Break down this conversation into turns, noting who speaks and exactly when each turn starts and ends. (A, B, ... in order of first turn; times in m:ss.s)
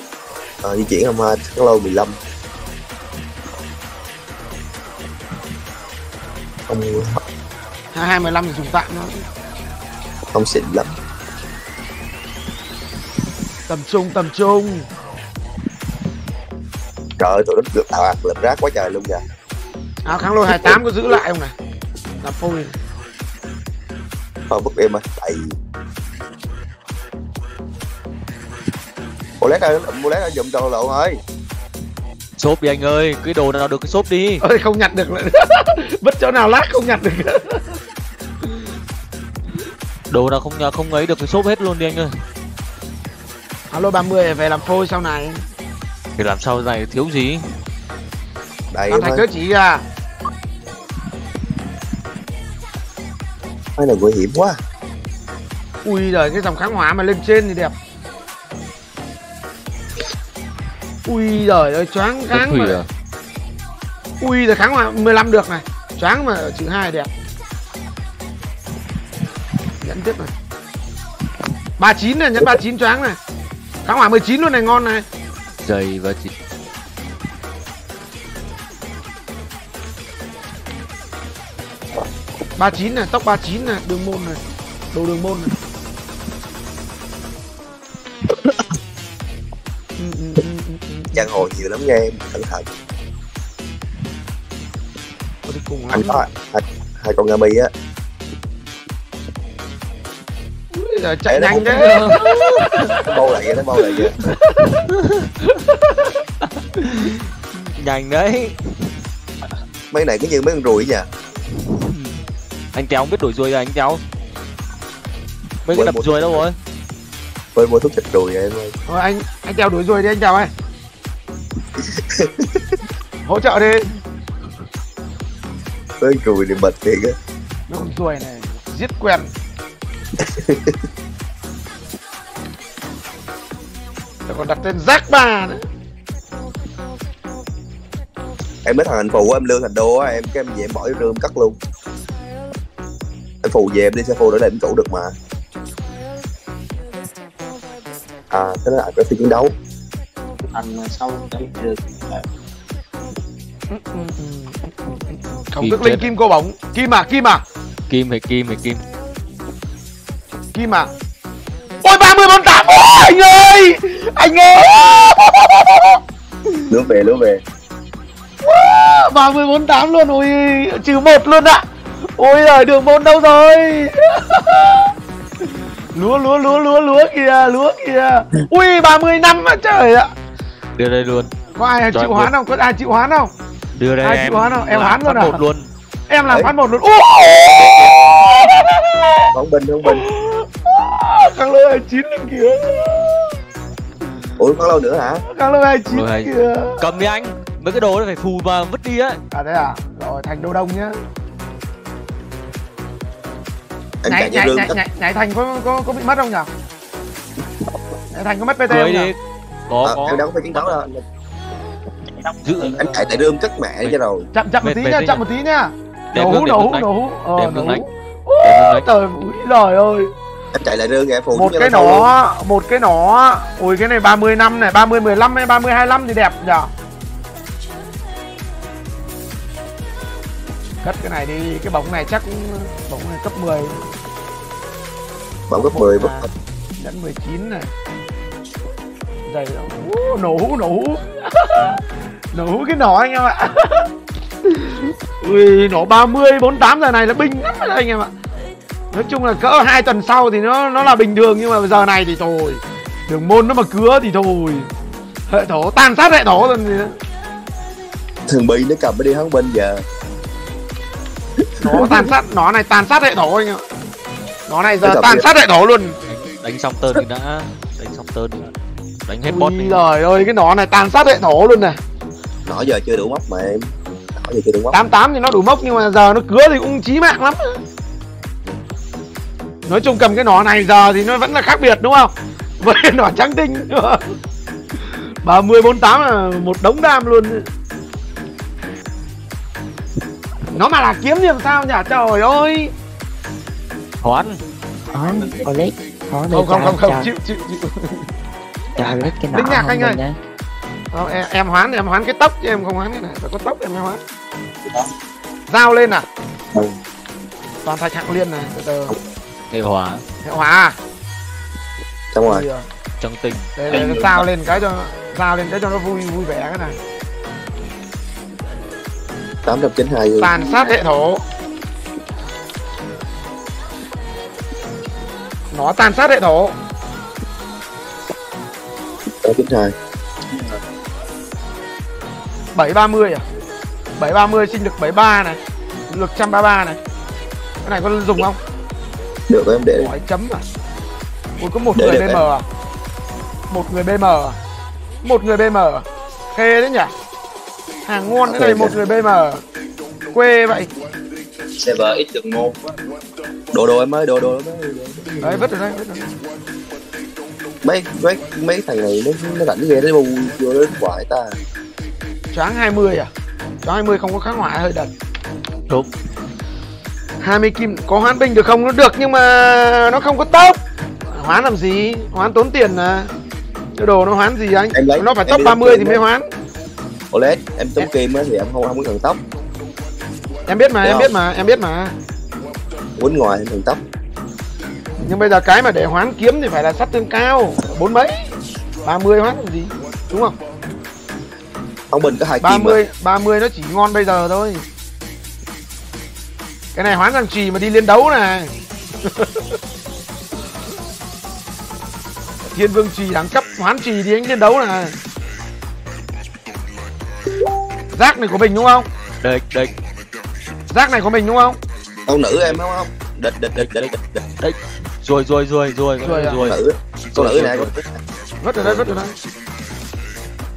0:00.6-0:02.2 A
0:06.7-0:07.2 A
0:07.9-0:09.2 B
0:10.3-0:10.9 A
0:13.7-0:14.9 B
0:17.2-0:19.2 A
0:20.0-0:21.5 B
0:20.5-0:20.8 A
0:22.2-0:22.7 B
0:24.5-0:25.6 A
0:29.4-0:31.2 A
0:32.4-0:34.4 C
0:34.4-0:37.8 B
0:40.1-0:42.2 C
0:43.7-0:45.4 B
0:46.2-0:47.5 C
0:48.7-0:49.2 A
0:48.9-0:49.8 B
0:53.8-0:54.6 A
0:55.8-0:57.7 B
1:01.1-1:02.8 B
1:02.3-1:02.9 C
1:04.2-1:07.1 B
1:09.8-1:10.3 B
1:11.8-1:13.2 B
1:13.8-1:15.0 B
1:15.6-1:16.3 C
1:22.6-1:25.5 B
1:30.0-1:31.3 B
1:31.1-1:32.7 A
1:35.4-1:36.2 B
1:35.9-1:37.7 A
1:40.7-1:43.1 B
1:41.3-1:42.2 A
1:42.9-1:44.2 A
1:44.4-1:44.8 B
1:44.9-1:45.3 C
1:46.8-1:48.6 C
1:49.9-1:51.1 A
1:51.6-1:52.2 C
1:52.7-1:54.0 C
1:55.6-1:56.6 C
1:55.7-1:56.4 A
1:57.5-1:58.7 A
1:58.9-2:00.5 B
2:01.8-2:02.6 A
2:03.2-2:03.9 B
2:06.0-2:07.2 A
2:07.7-2:09.3 B
2:10.2-2:10.8 A
2:14.3-2:15.6 B
2:18.6-2:21.6 A
2:23.4-2:25.2 A
2:28.3-2:29.5 A
2:30.5-2:32.2 D
2:33.7-2:37.4 B
2:35.6-2:36.0 C
2:37.9-2:38.8 C
2:40.5-2:40.9 B
2:41.8-2:46.0 B
2:46.7-2:47.4 A
2:48.4-2:51.6 B
2:52.2-2:54.9 B
2:55.9-3:00.1 B
3:00.8-3:01.3 C
3:01.6-3:03.3 B
3:01.9-3:02.3 C
3:03.8-3:05.7 C
3:04.0-3:05.4 B
3:06.1-3:09.3 B
3:06.3-3:06.5 A
3:07.5-3:08.0 C
3:09.3-3:10.0 A
3:09.8-3:13.4 B
3:14.4-3:15.2 A
3:15.3-3:16.8 B
3:15.9-3:19.2 C
3:19.3-3:20.9 B
3:24.0-3:24.8 A
3:24.1-3:26.5 B
3:28.1-3:29.1 B
3:28.7-3:29.2 C
3:29.7-3:30.3 C
3:29.8-3:31.0 A
3:32.4-3:33.2 C
3:32.6-3:34.3 A
3:34.3-3:40.1 B
3:34.6-3:35.2 C
3:36.1-3:37.8 C
3:38.4-3:38.9 C
3:40.5-3:42.1 A
3:41.3-3:46.7 B
3:50.8-3:53.8 B
3:55.5-3:56.3 A
3:55.6-3:57.7 B
3:59.2-4:01.8 B
4:02.3-4:03.9 B
4:04.5-4:08.1 B
4:08.9-4:14.7 B
4:15.3-4:17.0 B
4:18.3-4:19.8 A
4:21.6-4:23.6 B
4:21.6-4:22.1 A
4:24.5-4:26.0 B
4:24.8-4:25.3 A
4:26.1-4:28.5 C
4:29.1-4:29.8 C
4:29.2-4:31.8 B
4:32.4-4:34.8 A
4:34.7-4:37.6 B
4:39.7-4:44.1 B
4:45.2-4:47.4 B
4:50.5-4:52.7 B
4:54.0-4:54.4 C
4:54.9-4:57.1 E
4:56.3-4:58.1 B
4:58.8-5:00.2 E
4:59.3-5:00.0 B
5:00.9-5:04.0 B
5:05.5-5:06.1 B
5:07.6-5:09.0 B
5:09.5-5:10.0 C
5:10.2-5:10.8 B
5:12.1-5:12.4 A
5:12.3-5:12.6 B
5:13.0-5:13.5 C
5:13.6-5:16.8 B
5:19.4-5:20.7 A
5:20.2-5:21.2 B
5:25.5-5:26.6 B
5:29.2-5:29.7 A
5:32.5-5:33.2 B
5:34.0-5:35.4 B
5:35.9-5:36.8 B
5:37.6-5:38.4 B
5:39.3-5:39.9 A
5:39.8-5:40.4 B
5:41.4-5:42.4 B
5:41.7-5:42.2 A
5:43.5-5:44.4 B
5:45.0-5:46.9 B
5:47.8-5:49.4 B
5:48.2-5:48.7 A
5:50.1-5:50.7 B
5:51.6-5:52.7 D
5:53.5-5:55.5 A
5:55.2-5:56.1 B
5:57.6-6:01.4 A
6:02.3-6:03.1 B
6:03.6-6:04.9 B
6:07.2-6:10.6 B
6:11.1-6:13.1 B
6:13.7-6:16.2 B
6:14.7-6:16.0 A
6:17.1-6:19.2 A
6:20.5-6:21.9 B
6:20.8-6:21.1 A
6:23.0-6:23.8 A
6:25.0-6:28.3 B
6:28.8-6:30.3 B
6:31.9-6:32.8 A
6:32.4-6:34.6 B
6:36.7-6:38.5 B
6:39.0-6:39.5 B
6:42.5-6:45.0 B
6:47.9-6:48.9 B
6:49.2-6:49.7 C
6:50.7-6:51.6 B
6:52.1-6:54.2 A
6:53.6-6:56.6 C
6:56.0-6:56.4 B
6:56.4-6:57.9 A
6:57.1-6:57.7 C
6:58.4-6:59.1 B
6:58.6-6:58.9 C